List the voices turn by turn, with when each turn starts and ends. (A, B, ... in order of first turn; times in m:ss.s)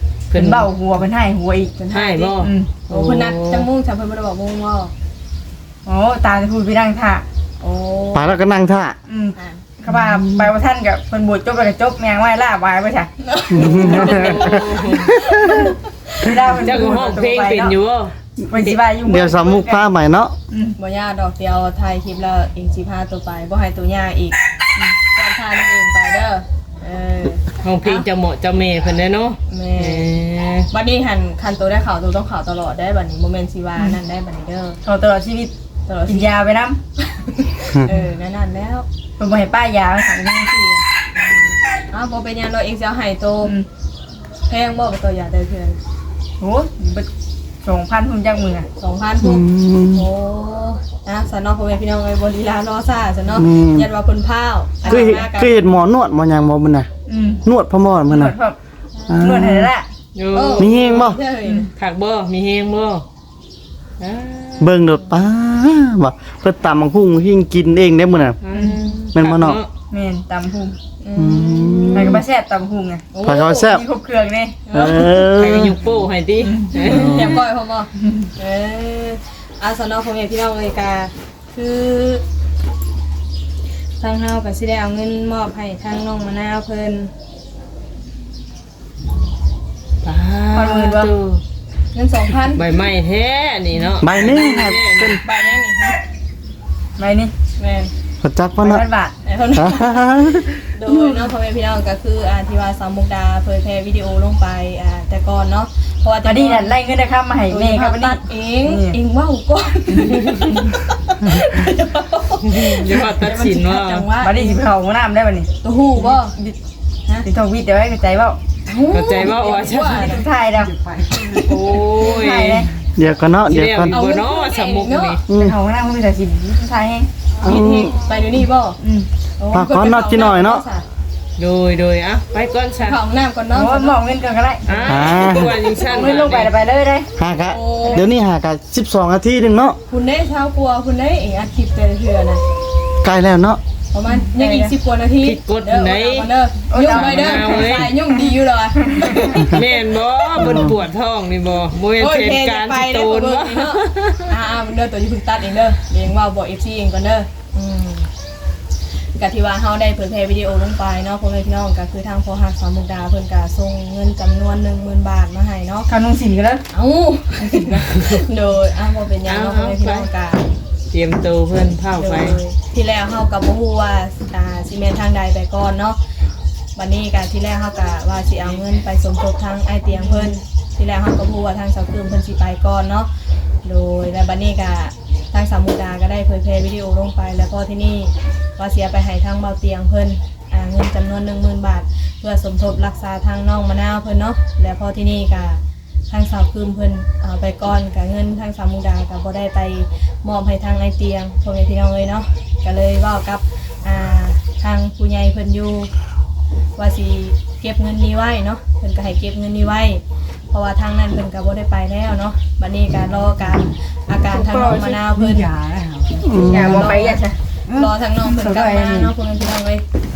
0:00.3-0:00.7 A
0:00.3-0:01.7 B
0:01.8-0:04.9 C
0:01.9-0:03.7 A
0:02.4-0:02.7 B
0:05.8-0:07.2 B
0:07.6-0:08.4 C
0:08.1-0:09.0 D
0:09.1-0:13.1 B
0:09.4-0:09.6 C
0:09.9-0:10.5 D
0:13.2-0:16.6 C
0:13.5-0:15.8 D
0:13.6-0:15.2 A
0:16.2-0:17.7 B
0:16.6-0:18.1 A
0:18.5-0:19.8 B
0:19.0-0:20.3 D
0:20.5-0:20.8 B
0:20.8-0:24.4 C
0:25.1-0:28.0 C
0:27.6-0:30.7 A
0:29.5-0:30.1 C
0:30.7-0:34.8 C
0:34.8-0:35.5 B
0:35.9-0:36.3 C
0:36.1-0:36.8 B
0:37.0-0:38.8 C
0:39.2-0:40.8 B
0:41.2-0:43.5 C
0:44.5-0:45.8 C
0:46.4-0:47.1 B
0:47.6-0:48.6 B
0:48.8-0:55.6 C
0:49.2-0:50.0 D
0:53.3-0:53.9 D
0:54.8-0:56.9 D
0:57.1-0:57.4 B
0:57.4-0:58.4 D
0:58.1-0:58.6 B
0:59.0-0:59.2 C
0:59.1-0:59.7 D
0:59.2-0:59.9 B
1:00.1-1:01.0 A
1:00.3-1:01.7 C
1:00.6-1:01.2 D
1:01.4-1:01.7 B
1:01.8-1:03.0 A
1:04.0-1:04.8 A
1:04.6-1:08.4 D
1:08.4-1:09.7 A
1:08.5-1:08.8 B
1:08.5-1:09.0 C
1:09.1-1:09.6 D
1:09.9-1:10.8 B
1:11.0-1:12.2 C
1:11.2-1:12.2 D
1:11.9-1:13.0 B
1:13.1-1:13.8 C
1:13.2-1:13.8 D
1:13.7-1:14.6 B
1:14.7-1:15.2 C
1:14.7-1:15.8 D
1:15.2-1:17.4 A
1:16.4-1:16.7 B
1:16.8-1:22.2 C
1:16.8-1:17.4 D
1:24.0-1:27.1 C
1:30.0-1:31.4 A
1:30.5-1:31.1 B
1:31.9-1:32.6 C
1:32.5-1:35.2 A
1:34.0-1:35.2 D
1:34.3-1:34.6 C
1:35.2-1:36.0 C
1:37.0-1:37.3 B
1:37.6-1:37.9 C
1:38.2-1:38.8 D
1:38.6-1:39.1 B
1:39.2-1:46.7 C
1:39.5-1:41.2 D
1:46.2-1:49.0 B
1:47.5-1:54.6 C
1:50.0-1:50.6 B
1:50.1-1:50.5 A
1:52.4-1:54.1 A
1:54.2-1:55.5 B
1:55.6-1:56.4 C
1:56.0-1:56.6 B
1:57.2-1:58.4 B
1:58.6-2:00.2 C
1:58.9-2:00.2 A
1:59.4-2:01.8 E
2:00.0-2:00.7 B
2:01.4-2:02.7 A
2:01.9-2:02.7 B
2:03.0-2:04.0 D
2:03.5-2:05.2 A
2:03.9-2:05.2 C
2:05.3-2:05.5 D
2:05.3-2:07.1 B
2:07.4-2:08.8 C
2:07.4-2:08.0 D
2:08.8-2:09.1 B
2:09.4-2:10.8 C
2:09.5-2:10.6 D
2:11.4-2:13.0 A
2:12.8-2:14.0 C
2:13.5-2:15.1 B
2:14.6-2:16.5 A
2:14.9-2:15.6 D
2:15.8-2:17.1 B
2:17.2-2:19.8 D
2:17.5-2:18.0 C
2:19.9-2:22.4 C
2:23.0-2:23.6 D
2:23.9-2:29.8 C
2:24.1-2:24.7 B
2:25.2-2:26.3 A
2:26.7-2:28.2 B
2:26.9-2:27.9 A
2:28.8-2:29.3 B
2:29.0-2:34.3 A
2:30.4-2:30.7 C
2:30.4-2:30.8 D
2:32.0-2:38.1 C
2:39.2-2:45.9 C
2:45.9-2:46.6 B
2:46.7-2:50.4 C
2:49.2-2:50.1 A
2:50.9-2:52.4 A
2:52.0-2:56.0 C
2:56.8-3:03.1 C
3:00.0-3:00.3 B
3:03.6-3:25.9 C
3:26.8-3:35.5 C
3:34.3-3:36.2 E
3:36.1-3:37.2 C
3:36.2-3:37.0 D
3:36.3-3:37.4 B
3:37.7-3:37.9 E
3:37.7-3:39.8 C
3:38.2-3:39.1 B